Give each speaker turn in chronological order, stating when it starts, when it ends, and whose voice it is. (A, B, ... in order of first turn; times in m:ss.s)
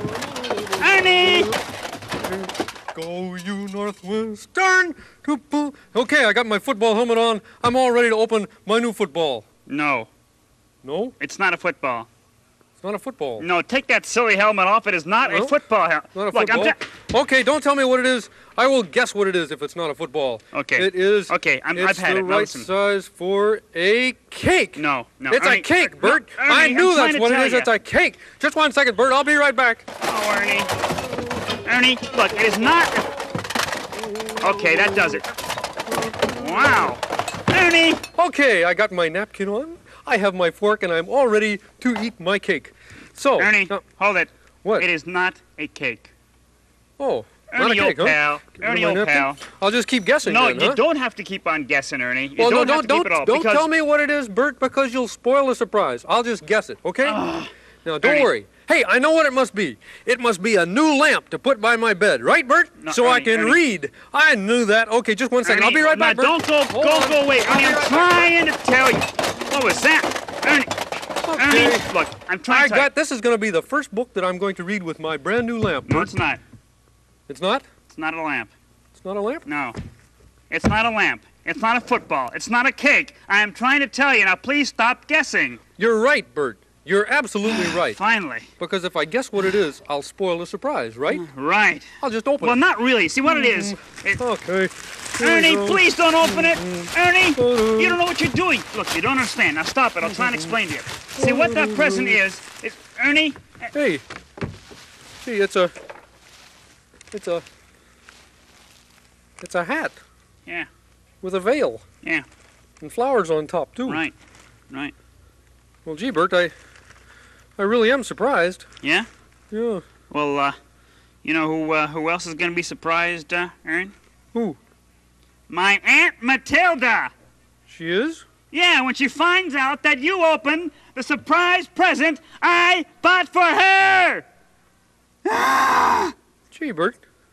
0:00.8-0:01.5 A
0:02.9-0:09.4 B
0:09.7-0:10.1 A
0:10.8-0:11.1 B
0:11.2-0:12.1 A
0:12.8-0:13.4 B
0:13.4-0:16.8 A
0:15.2-0:15.5 B
0:16.1-0:29.8 B
0:20.5-0:22.7 A
0:24.8-0:27.7 A
0:30.0-0:30.7 A
0:31.6-0:33.1 A
0:34.4-0:34.8 B
0:34.4-0:35.3 A
0:36.3-0:38.0 A
0:38.1-0:43.8 B
0:43.4-0:46.1 A
0:47.0-0:50.8 B
0:47.5-0:49.4 A
0:50.2-0:53.7 A
0:52.4-0:57.2 B
0:57.0-0:57.5 A
0:57.8-1:08.3 B
0:58.0-0:58.3 A
1:02.8-1:03.6 A
1:05.4-1:10.7 A
1:11.2-1:11.8 B
1:11.3-1:12.9 A
1:12.5-1:16.1 B
1:15.8-1:16.4 A
1:17.3-1:17.7 B
1:17.9-1:18.5 A
1:18.9-1:19.4 B
1:19.4-1:19.8 A
1:20.5-1:25.6 A
1:25.8-1:28.0 B
1:27.4-1:28.5 A
1:28.6-1:31.2 B
1:31.1-1:34.2 A
1:32.0-1:32.6 B
1:33.2-1:38.0 B
1:35.2-1:43.7 A
1:40.0-1:40.5 B
1:41.2-1:42.2 B
1:43.7-1:44.0 B
1:45.2-1:45.7 B
1:47.1-1:47.4 B
1:49.4-1:50.0 B
1:51.2-1:51.8 B
1:52.8-1:54.0 B
1:53.8-1:54.1 A
1:55.8-1:56.5 B
1:57.6-1:58.6 B
1:58.8-1:59.1 A
1:59.5-1:59.8 B
2:00.1-2:00.6 A
2:01.2-2:03.9 A
2:05.5-2:07.1 A
2:07.7-2:08.2 B
2:08.5-2:14.2 A
2:15.2-2:16.1 A
2:16.5-2:17.0 B